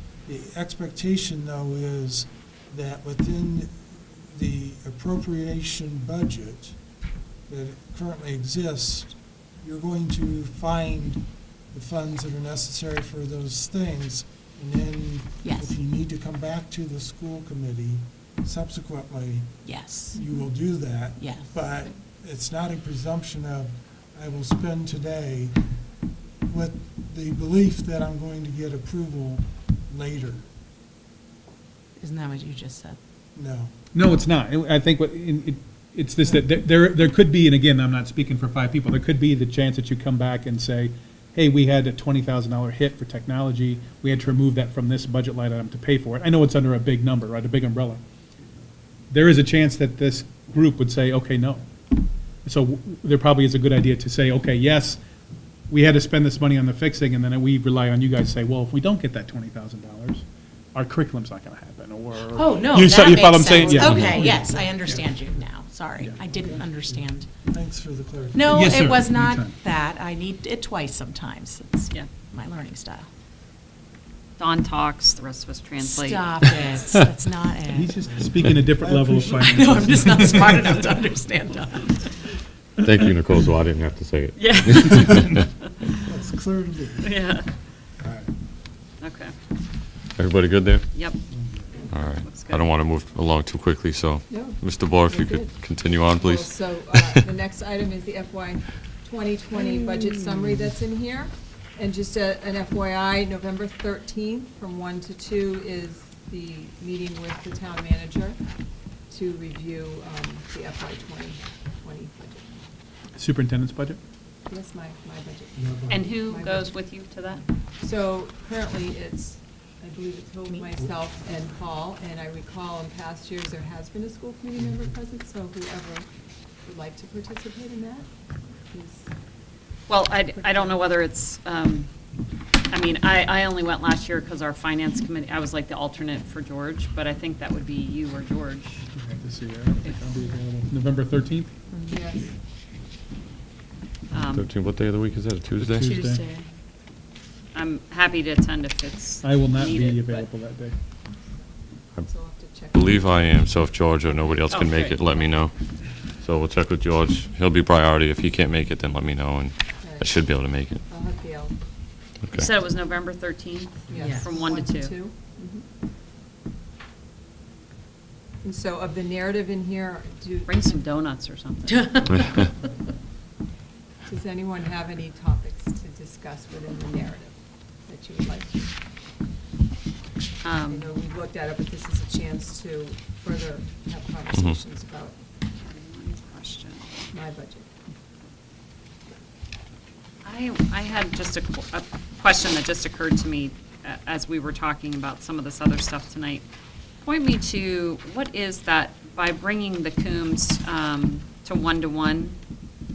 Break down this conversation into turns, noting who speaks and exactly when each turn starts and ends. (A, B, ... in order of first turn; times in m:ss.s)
0:00.3-0:06.8 A
0:07.5-0:25.6 A
0:15.4-0:15.8 B
0:19.6-0:20.2 B
0:21.2-0:21.6 B
0:26.5-0:30.5 A
0:32.0-0:33.0 B
0:33.4-0:33.8 A
0:33.9-0:48.0 C
0:49.1-0:51.7 C
0:52.4-0:55.0 C
0:55.7-1:05.1 C
1:02.3-1:07.3 B
1:03.8-1:04.1 D
1:04.1-1:04.7 A
1:06.3-1:08.7 A
1:08.3-1:13.1 B
1:08.5-1:09.5 C
1:14.4-1:16.6 E
1:15.8-1:18.0 B
1:17.7-1:20.9 C
1:18.8-1:20.1 A
1:19.5-1:22.1 B
1:22.8-1:25.1 D
1:24.4-1:25.5 E
1:26.0-1:27.1 A
1:27.0-1:27.5 E
1:28.0-1:28.3 A
1:29.0-1:29.3 E
1:30.2-1:30.9 D
1:30.9-1:31.2 E
1:31.3-1:31.9 A
1:31.9-1:37.3 D
1:32.0-1:32.7 E
1:34.3-1:35.6 F
1:36.1-1:48.4 F
1:49.1-1:52.5 F
1:53.2-1:54.0 C
1:54.5-1:56.8 F
1:55.6-1:56.1 A
1:55.9-1:57.4 E
1:57.8-2:06.1 F
2:00.5-2:00.7 B
2:06.6-2:08.1 F
2:08.7-2:09.1 F
2:09.9-2:11.9 E
2:12.7-2:18.8 E
2:19.0-2:21.5 C
2:21.7-2:22.0 B
2:21.9-2:22.3 F
2:24.1-2:24.5 E
2:24.1-2:25.9 D
2:25.6-2:26.2 C
2:25.8-2:26.4 B
2:27.5-2:30.3 E
2:29.2-2:30.7 C
2:31.9-2:33.2 F
2:32.7-2:35.5 D
2:34.5-2:35.2 E
2:36.2-2:40.8 D
2:39.8-2:40.1 F
2:40.9-2:41.6 F
2:42.3-2:45.0 E
2:43.9-2:45.6 F
2:43.9-2:44.3 B
2:48.4-2:50.6 F
2:50.5-2:52.1 E
2:51.7-2:52.5 B
2:54.1-2:57.4 F
2:57.9-2:58.7 F
3:00.4-3:00.9 E
3:00.7-3:05.2 F
3:04.3-3:04.6 D
3:05.7-3:06.9 E
3:07.1-3:07.7 F
3:10.2-3:16.4 E
3:17.0-3:22.4 E